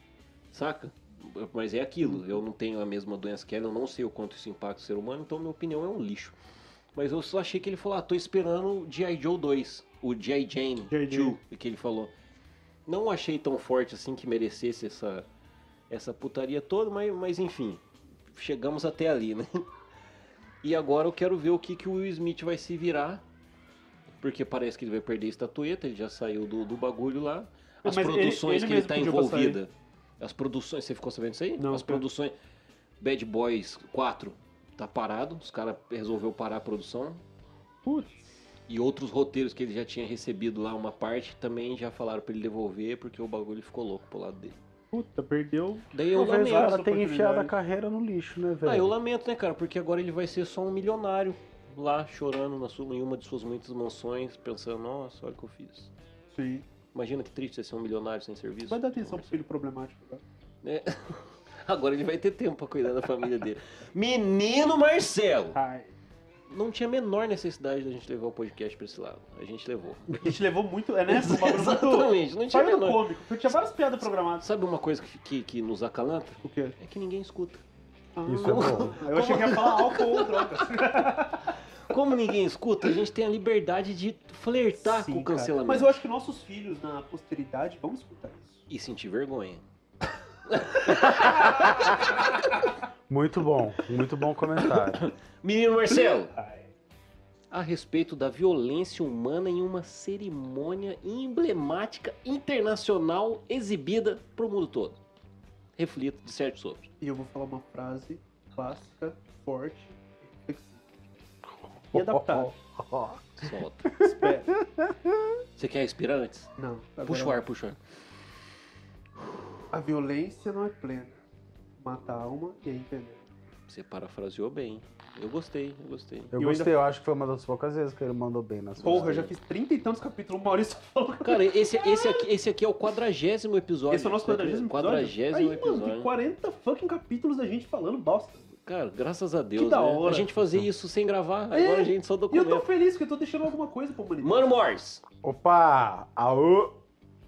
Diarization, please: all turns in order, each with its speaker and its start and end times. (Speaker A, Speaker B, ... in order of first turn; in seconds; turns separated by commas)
Speaker A: 0.5-6.4, Speaker A: 7.0-12.1, Speaker B: 10.9-11.4, Speaker A: 12.9-15.3, Speaker A: 15.9-19.5, Speaker A: 20.6-23.2, Speaker A: 24.2-32.3, Speaker B: 27.9-29.6, Speaker B: 31.6-32.0, Speaker A: 33.0-37.2, Speaker B: 37.9-38.2, Speaker A: 38.7-44.6, Speaker B: 44.9-47.5, Speaker A: 45.9-46.8, Speaker C: 46.1-49.0, Speaker A: 48.6-55.9, Speaker B: 56.3-56.7, Speaker A: 56.9-59.4, Speaker B: 58.7-60.2, Speaker A: 60.6-65.6, Speaker B: 65.5-65.9, Speaker A: 66.5-70.3, Speaker B: 70.2-74.5, Speaker A: 71.1-77.6, Speaker B: 76.4-76.8, Speaker B: 78.2-81.4, Speaker C: 78.3-79.0, Speaker A: 78.4-80.7, Speaker A: 81.9-86.0, Speaker B: 84.8-88.6, Speaker A: 88.7-89.7, Speaker A: 90.5-92.7, Speaker C: 93.1-95.0, Speaker A: 94.5-96.4, Speaker A: 97.5-105.0, Speaker A: 105.8-106.9, Speaker B: 107.0-110.8, Speaker B: 111.9-112.5, Speaker C: 111.9-115.2, Speaker A: 113.4-114.0, Speaker B: 114.0-114.6, Speaker A: 115.6-116.5, Speaker B: 116.6-117.5, Speaker A: 117.0-117.8, Speaker B: 119.7-121.2, Speaker B: 121.8-123.2, Speaker A: 123.7-126.4, Speaker C: 126.3-129.2, Speaker B: 126.3-126.8, Speaker A: 128.8-129.3, Speaker B: 128.8-132.3, Speaker A: 131.2-136.1, Speaker B: 133.9-138.5, Speaker A: 138.6-142.7, Speaker B: 139.6-140.3, Speaker B: 141.5-144.5, Speaker A: 144.2-145.0, Speaker C: 145.2-146.8